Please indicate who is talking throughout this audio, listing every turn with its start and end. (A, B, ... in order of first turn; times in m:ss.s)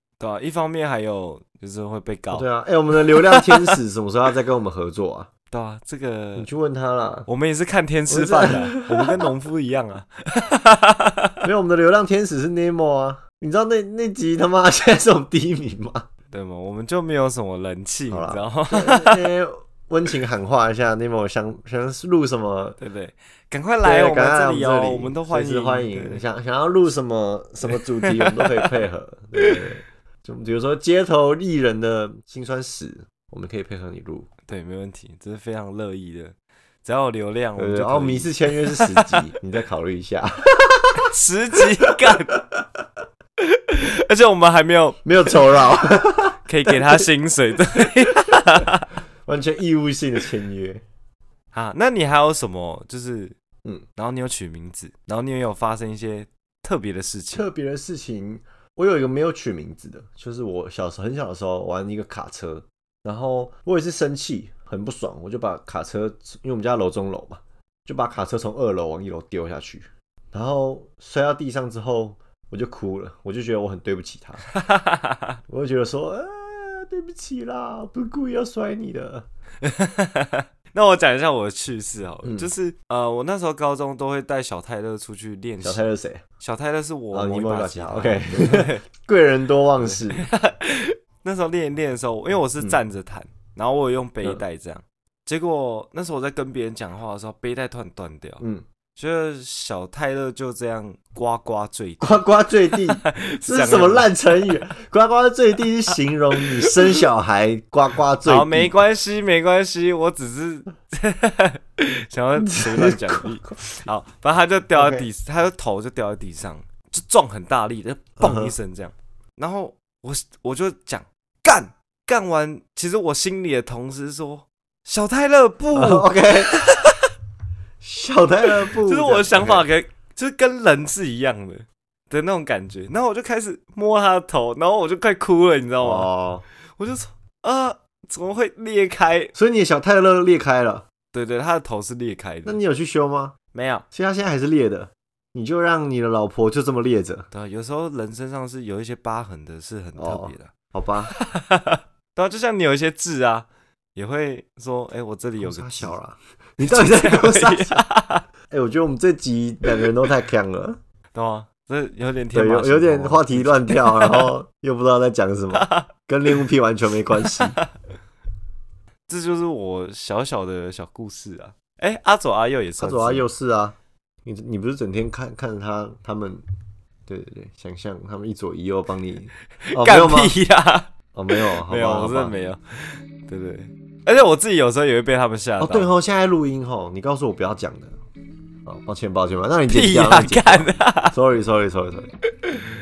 0:00.2-0:02.5 A
0:02.3-0:05.3 B
0:03.1-0:03.8 A
0:05.5-0:06.5 A
0:06.4-0:07.3 B
0:07.3-0:11.4 A
0:08.1-0:09.3 B
0:11.4-0:16.1 B
0:16.3-0:19.3 A
0:18.1-0:22.8 B
0:22.8-0:26.2 A
0:23.8-0:34.3 B
0:27.7-0:28.7 A
0:34.5-0:39.3 A
0:37.6-0:41.1 B
0:41.0-0:42.4 A
0:41.9-0:42.6 B
0:43.4-0:45.0 A
0:45.0-0:47.0 B
0:46.4-0:48.9 A
0:48.3-0:48.7 B
0:49.2-0:50.8 B
0:51.5-0:53.3 A
0:54.0-0:57.4 A
0:57.3-1:14.4 B
1:14.5-1:15.4 A
1:15.5-1:19.2 B
1:19.6-1:25.8 A
1:22.2-1:22.5 B
1:25.6-1:26.2 B
1:26.4-1:28.8 A
1:27.1-1:30.3 B
1:29.8-1:38.4 A
1:39.0-1:42.2 A
1:42.0-1:48.7 B
1:42.7-1:44.1 A
1:48.2-2:07.0 A
1:52.4-1:53.4 B
1:54.7-1:55.1 B
1:58.2-1:58.5 B
2:05.7-2:06.6 B
2:07.8-2:09.6 B
2:08.7-2:16.1 A
2:15.8-2:16.4 B
2:16.8-2:19.3 A
2:19.3-2:20.8 B
2:21.1-2:22.6 A
2:22.4-2:23.3 B
2:23.5-2:23.8 A
2:23.9-2:27.3 B
2:27.3-2:30.5 A
2:30.0-2:31.1 B
2:31.1-2:36.0 A
2:35.4-2:37.8 B
2:36.6-2:38.2 A
2:38.5-2:40.8 B
2:41.1-2:44.3 A
2:42.3-2:47.6 B
2:45.5-2:45.9 A
2:47.2-2:47.7 A
2:49.1-2:53.2 A
2:52.8-2:56.4 B
2:57.1-3:00.4 B
2:59.6-3:05.9 A
3:01.1-3:02.4 B
3:05.6-3:08.0 B
3:08.6-3:12.1 B
3:09.7-3:11.2 A